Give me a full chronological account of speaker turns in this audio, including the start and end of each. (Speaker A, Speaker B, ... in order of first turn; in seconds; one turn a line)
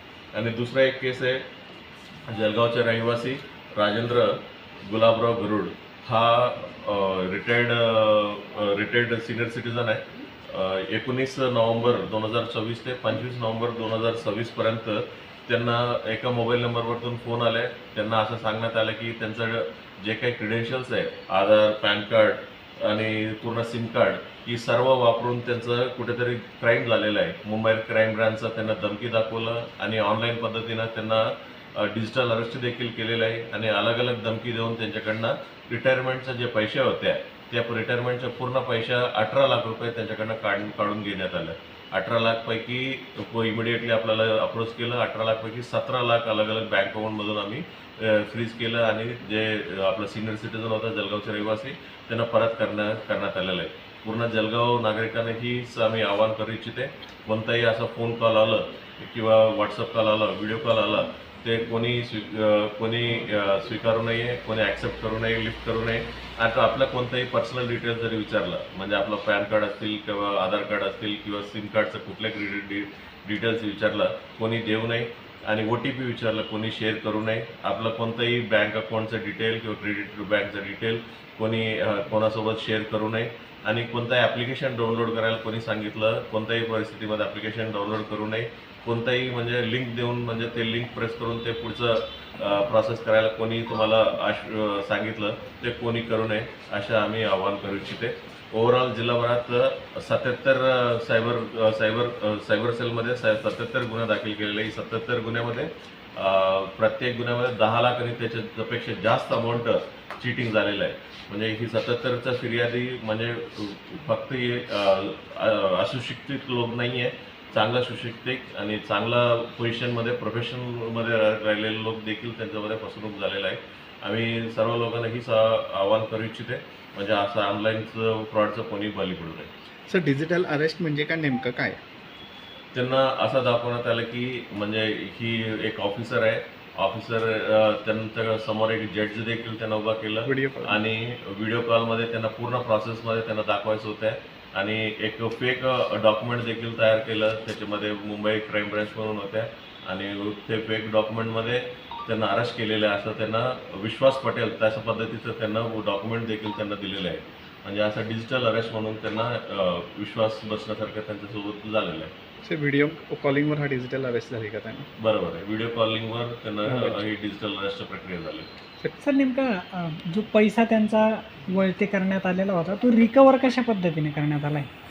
Speaker A: 0.3-1.4
Speaker A: 2.3-129.5
Speaker B: 129.9-131.8
Speaker A: 132.7-162.1
Speaker B: 140.2-140.8
Speaker B: 162.4-164.9
Speaker A: 165.0-168.5
Speaker B: 166.6-167.1
Speaker C: 169.0-174.7